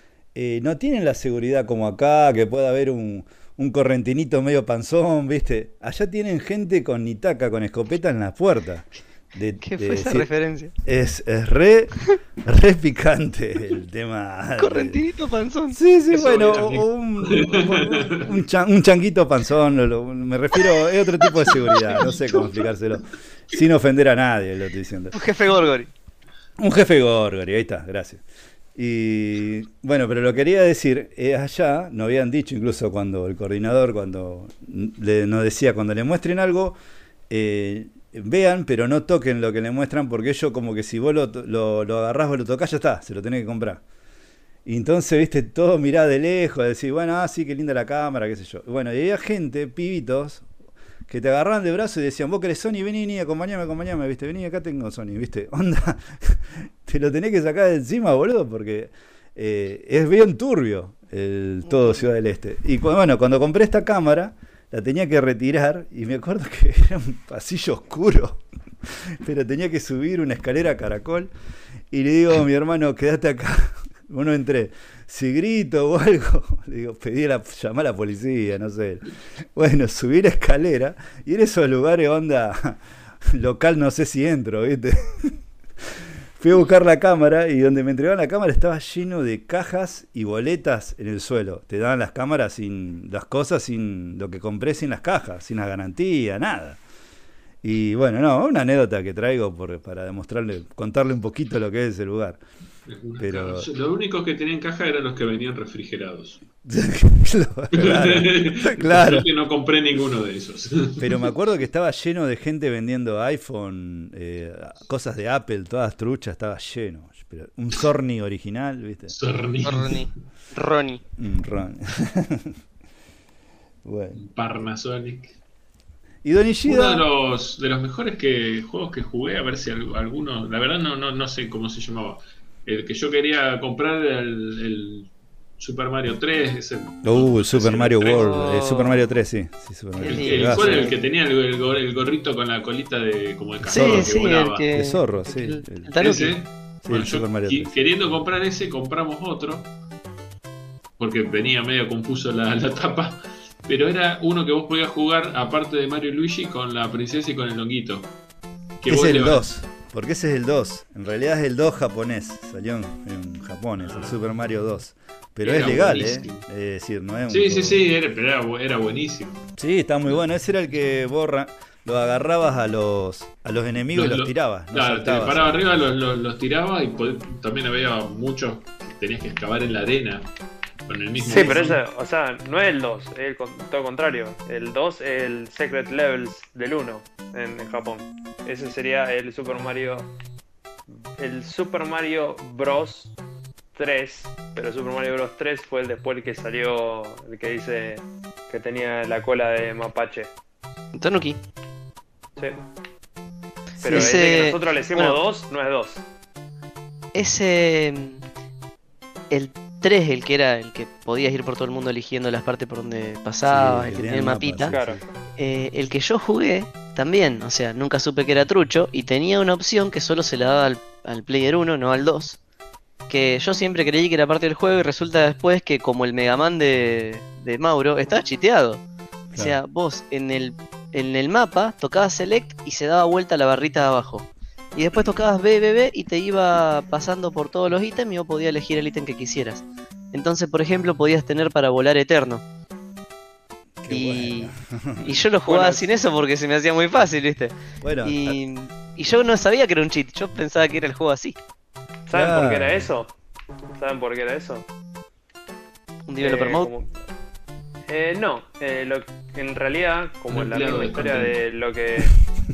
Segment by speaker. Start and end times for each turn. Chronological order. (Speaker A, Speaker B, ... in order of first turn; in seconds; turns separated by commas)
Speaker A: 0.3-10.3, Speaker B: 9.6-10.7, Speaker A: 10.8-15.0, Speaker B: 14.6-15.8, Speaker A: 15.7-25.2, Speaker C: 16.1-18.3, Speaker C: 21.7-22.7, Speaker B: 25.1-25.9, Speaker A: 26.6-28.2, Speaker A: 28.8-36.8, Speaker A: 37.3-43.8, Speaker A: 44.7-50.5, Speaker A: 51.1-71.3, Speaker A: 71.9-82.8, Speaker A: 83.3-96.8, Speaker A: 97.6-102.4, Speaker C: 102.9-106.4, Speaker A: 103.2-103.7, Speaker A: 106.7-109.3, Speaker C: 107.7-111.2, Speaker A: 111.0-119.2, Speaker C: 119.1-120.1, Speaker B: 119.6-121.0, Speaker A: 121.2-122.6, Speaker A: 123.8-124.2, Speaker C: 124.2-125.4, Speaker A: 126.2-127.0, Speaker C: 126.7-138.4, Speaker A: 137.0-140.9, Speaker B: 138.1-139.0, Speaker B: 140.0-141.0, Speaker C: 140.1-144.7, Speaker A: 143.7-144.1, Speaker B: 143.7-146.3, Speaker A: 144.7-145.9, Speaker C: 146.0-149.7, Speaker A: 146.8-147.8, Speaker C: 151.0-158.1, Speaker C: 158.8-159.5, Speaker A: 158.8-167.9, Speaker C: 163.9-164.2, Speaker C: 165.4-166.4, Speaker C: 167.3-169.4, Speaker A: 169.6-175.7, Speaker C: 173.9-180.2, Speaker C: 180.9-181.8, Speaker A: 181.3-181.8, Speaker D: 181.3-190.1, Speaker D: 191.2-193.1, Speaker D: 193.7-200.3, Speaker B: 200.9-201.4, Speaker A: 203.8-204.2, Speaker D: 203.8-206.0, Speaker B: 203.9-205.2, Speaker B: 207.1-208.2, Speaker B: 209.3-214.8, Speaker A: 213.5-215.0, Speaker D: 214.7-215.0, Speaker B: 215.4-222.4, Speaker B: 223.1-228.8, Speaker A: 229.3-229.6, Speaker B: 229.4-242.4, Speaker A: 243.8-245.7, Speaker B: 243.9-251.4, Speaker D: 245.5-245.8, Speaker A: 247.8-248.4, Speaker D: 252.1-253.1, Speaker A: 252.1-252.9, Speaker D: 253.7-254.7, Speaker B: 256.1-256.7, Speaker D: 256.2-256.9, Speaker D: 257.9-262.2, Speaker C: 260.3-261.4